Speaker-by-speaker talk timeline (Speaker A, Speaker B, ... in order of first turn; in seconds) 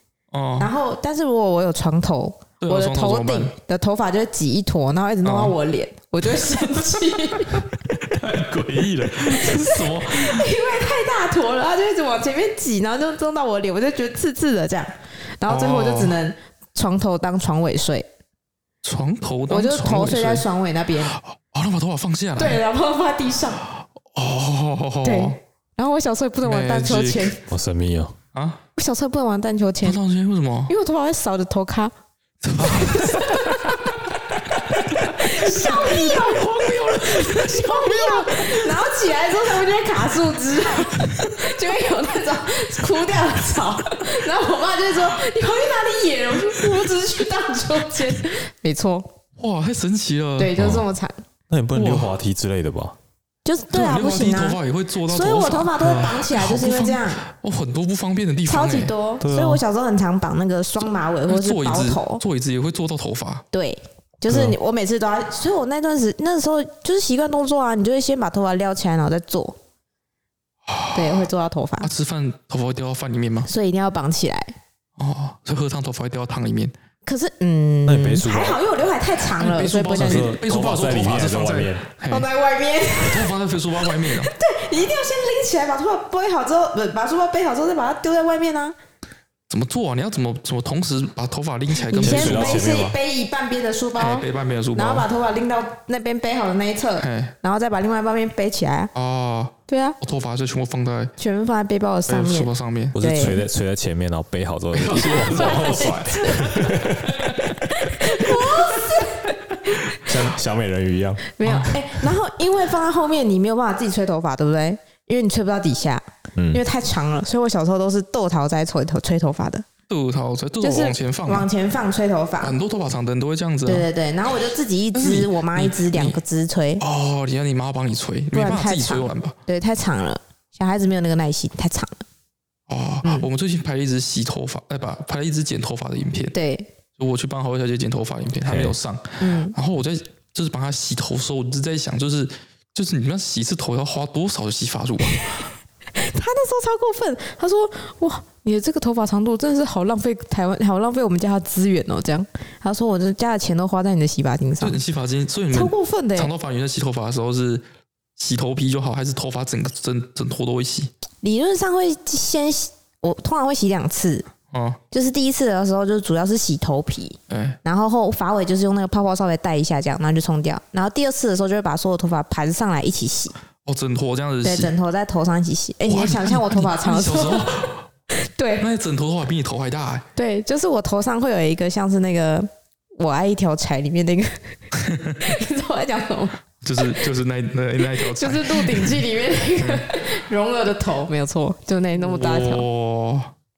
Speaker A: 0.3-0.7, 2.6-3.5, 5.2-5.5, 7.4-10.5, 15.5-16.2, 18.8-20.4, 21.1-22.6, 24.1-25.4, 26.4-27.3, 28.3-28.6, 29.8-30.7, 32.4-38.7, 40.9-41.4, 49.4-50.6, 51.7-52.1, 53.7-58.9, 61.3-63.4, 70.7-71.3, 71.8-73.5, 75.0-76.7, 79.3-82.3, 83.0-84.3, 89.5-92.7, 94.0-95.1, 97.0-97.3, 99.0-101.1, 102.1-103.3, 104.7-107.6, 108.2-108.6, 111.4-111.8, 119.9-121.5, 122.4-123.9, 124.9-126.2, 126.8-129.3, 132.7-136.3, 137.0-145.5, 154.6-157.6, 158.2-160.9, 164.5-164.8, 167.3-167.6, 173.7-174.7, 175.9-177.8, 178.6-180.1, 184.8-185.2, 186.6-189.1, 189.6-189.9, 192.0-193.3
Speaker B: 0.6-7.7, 9.3-18.1, 19.5-21.2, 22.4-23.6, 25.0-27.5, 28.8-30.0, 30.7-31.9, 32.6-34.1, 34.8-49.1, 50.4-51.2, 53.5-57.2, 58.5-62.2, 63.5-69.6, 70.9-71.9, 73.5-74.5, 77.0-80.4, 82.1-83.3, 84.0-88.8, 91.9-98.9, 99.7-100.0, 101.2-103.4, 105.0-106.7, 107.8-109.7, 111.4-119.7, 120.6-122.5, 123.7-126.8, 128.3-132.0, 136.3-136.7, 139.2-139.6, 145.9-154.8, 155.5-156.3, 161.2-164.3, 164.9-173.4, 174.4-177.7, 178.2-178.7, 180.2-184.6, 185.2-187.0, 187.8-192.7
Speaker C: 27.5-28.2, 50.6-50.8, 51.5-53.0, 59.2-59.6, 64.3-64.6, 77.9-78.6, 80.0-81.9, 92.0-93.0, 103.0-107.5, 110.0-111.2, 116.3-116.6, 138.5-138.8